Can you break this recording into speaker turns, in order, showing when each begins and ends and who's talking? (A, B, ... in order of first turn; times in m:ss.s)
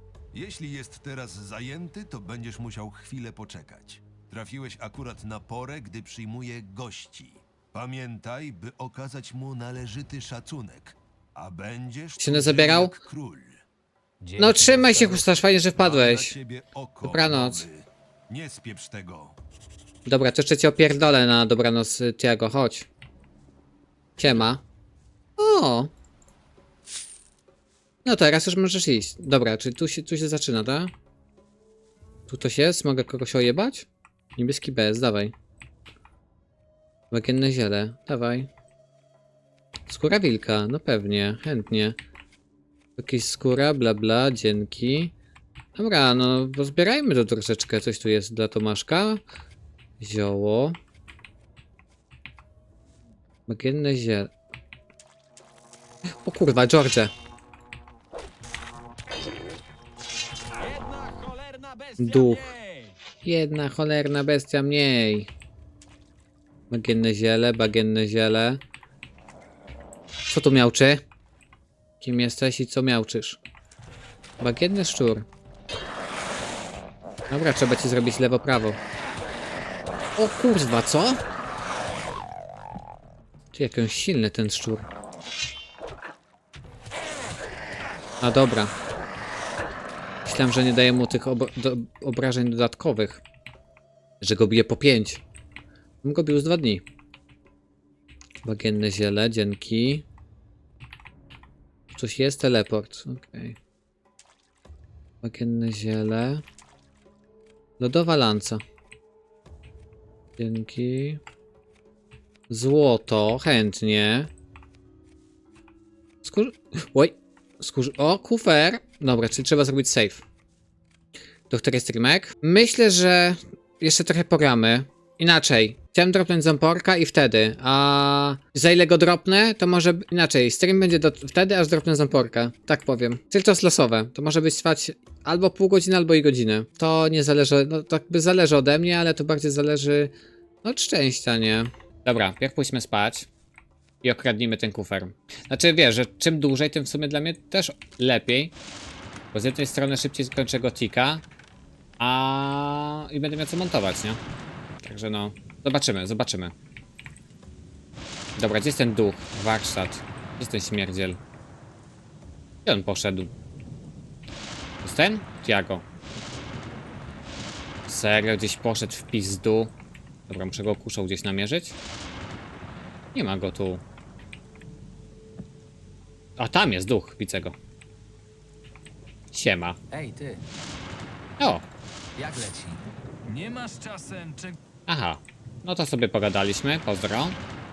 0:00.3-0:13.6 A
0:12.2-0:13.0 B
0:14.2-0:15.4 C
0:14.4-0:16.3 B
0:15.8-0:19.4 A
0:17.0-0:17.7 B
0:20.1-0:22.9 B
0:24.2-0:24.6 B
0:25.4-0:25.9 B
0:28.0-0:30.9 B
0:32.3-0:35.3 B
0:37.1-0:38.5 B
0:39.9-0:42.0 B
0:43.0-0:45.1 B
0:45.8-0:49.2 B
0:50.0-0:50.8 B
0:53.5-0:54.3 B
0:56.2-0:57.1 B
1:00.7-1:02.8 D
1:02.0-1:02.5 B
1:03.2-1:05.3 B
1:06.7-1:08.6 B
1:10.3-1:11.0 B
1:12.0-1:13.4 B
1:14.4-1:15.3 B
1:17.3-1:18.8 B
1:20.2-1:21.2 B
1:23.5-1:24.9 B
1:28.2-1:28.7 B
1:30.3-1:33.2 B
1:34.2-1:35.2 B
1:36.0-1:36.8 B
1:38.4-1:40.0 B
1:41.9-1:43.6 B
1:45.2-1:46.4 B
1:47.8-1:48.6 B
1:50.4-1:51.2 B
1:52.5-1:54.3 B
1:56.2-2:00.2 B
2:01.5-2:20.1 B
2:20.6-2:23.3 B
2:24.0-2:28.5 B
2:29.3-2:31.2 B
2:32.0-2:34.2 B
2:34.8-2:36.5 B
2:38.4-2:41.2 B
2:42.7-2:43.3 B
2:44.8-2:45.8 B
2:47.9-2:49.7 B
2:50.3-2:51.8 B
2:53.2-2:53.8 B
2:56.4-2:57.6 B
2:59.3-2:59.8 B
2:59.9-3:00.4 C
3:01.4-3:01.6 B
3:02.2-3:02.9 C
3:03.3-3:04.6 D
3:04.9-3:07.4 B